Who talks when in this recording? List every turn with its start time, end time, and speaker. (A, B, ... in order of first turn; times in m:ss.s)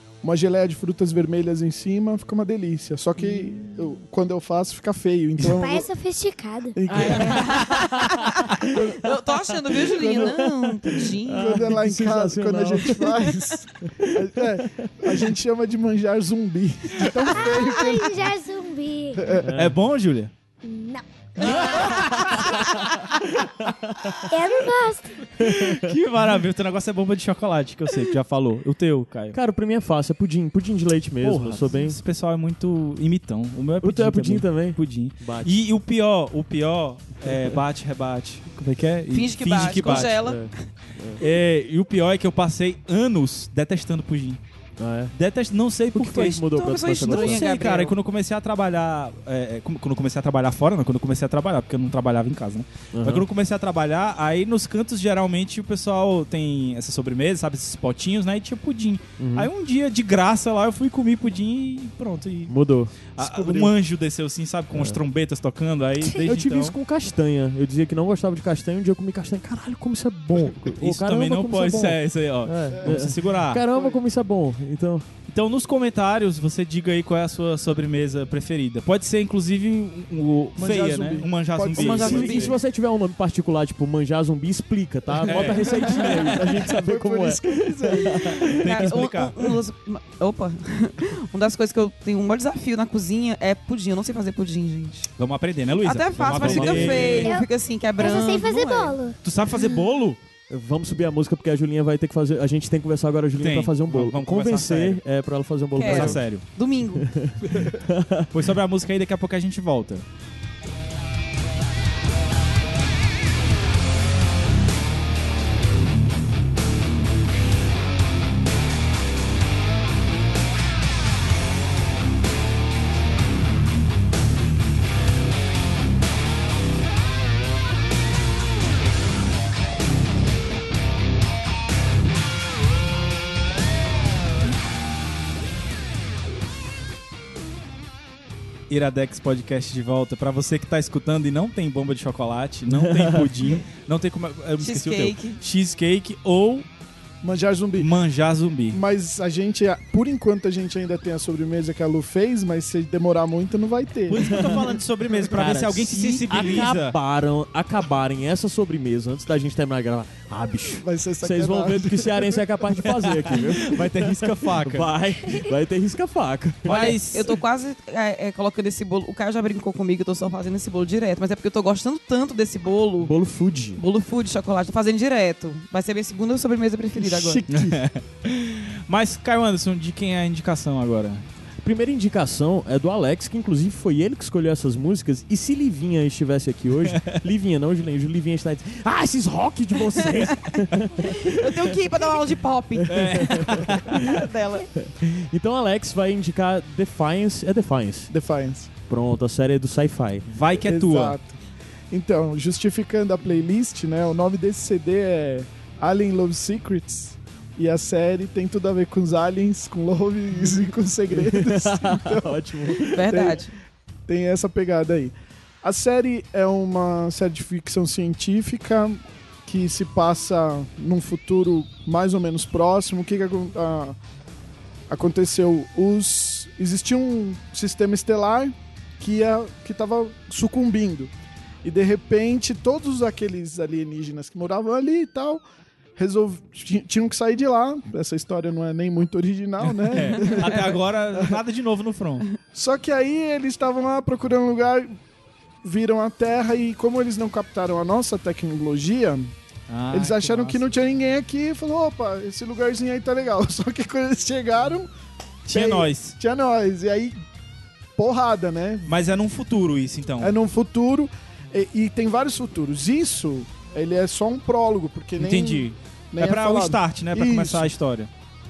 0:00.2-0:05.9 A
0:05.5-0:06.8 B
0:06.8-0:07.5 A
0:06.9-0:13.2 C
0:07.1-0:11.6 D
0:11.3-0:18.3 A
0:13.9-0:14.8 C
0:17.3-0:19.3 B
0:19.2-0:19.4 A
0:19.2-0:19.8 C
0:19.6-0:20.3 E
0:20.6-0:22.0 B
0:21.4-0:22.9 C
0:21.6-0:22.4 E
0:23.6-0:24.2 C
0:24.1-0:25.3 B
0:25.4-0:29.4 E
0:25.4-0:25.9 C
0:29.3-0:32.0 C
0:31.2-0:40.2 E
0:33.8-0:35.5 C
0:37.2-0:37.5 C
0:39.1-0:40.5 D
0:39.9-0:41.2 C
0:41.2-0:44.4 E
0:44.8-0:45.1 C
0:45.1-1:02.5 E
0:45.9-0:47.4 C
0:46.3-0:47.9 D
0:52.9-0:53.2 C
0:59.2-0:59.5 C
1:02.5-1:03.7 C
1:03.2-1:06.7 E
1:04.7-1:05.0 C
1:06.1-1:15.1 C
1:10.5-1:13.6 E
1:12.8-1:13.1 A
1:13.7-1:14.0 A
1:15.3-1:22.5 E
1:20.6-1:22.5 A
1:21.7-1:22.6 D
1:21.8-1:28.9 C
1:25.2-1:26.3 E
1:25.3-1:28.1 A
1:28.6-1:29.5 E
1:28.6-1:35.1 D
1:35.2-1:37.4 E
1:35.8-1:39.0 D
1:36.2-1:37.3 C
1:37.2-1:39.1 B
1:39.2-1:40.2 E
1:40.5-1:46.2 C
1:43.4-1:45.0 E
1:45.7-1:47.1 D
1:45.8-1:46.4 E
1:47.0-1:48.3 C
1:48.3-1:50.0 E
2:18.7-2:26.6 E
2:22.7-2:23.3 C
2:24.6-2:25.4 D
2:27.2-2:27.9 A
2:27.8-2:28.8 E
2:28.7-2:34.6 A
2:34.1-2:37.0 E
2:35.2-2:46.8 C
2:40.7-2:42.6 A
2:43.3-2:44.9 E
2:46.6-2:47.4 E
2:46.7-2:53.1 D
2:53.0-2:53.8 C
2:53.8-2:57.4 D
2:56.9-2:57.8 A
2:57.5-3:01.2 E
3:01.6-3:11.7 C
3:06.9-3:07.1 E
3:09.9-3:13.0 D
3:12.8-3:14.2 C
3:12.9-3:14.0 E
3:14.0-3:14.7 D
3:14.8-3:18.1 C
3:18.1-3:18.7 A
3:18.9-3:20.3 C
3:20.3-3:21.2 E
3:20.6-3:21.4 A
3:21.9-3:32.4 A
3:31.1-3:33.2 C
3:32.9-3:33.5 D
3:33.1-3:33.4 A
3:34.1-3:44.0 A
3:44.9-3:51.1 A
3:51.6-3:55.4 A
3:56.0-4:01.4 A
3:59.6-4:02.2 E
4:02.5-4:05.0 A
4:05.6-4:09.3 A
4:09.7-4:10.6 E
4:09.9-4:14.9 A
4:15.4-4:17.2 A
4:15.5-4:16.2 E
4:18.0-4:18.9 A
4:18.9-4:20.3 E
4:20.2-4:27.7 A
4:25.2-4:28.1 E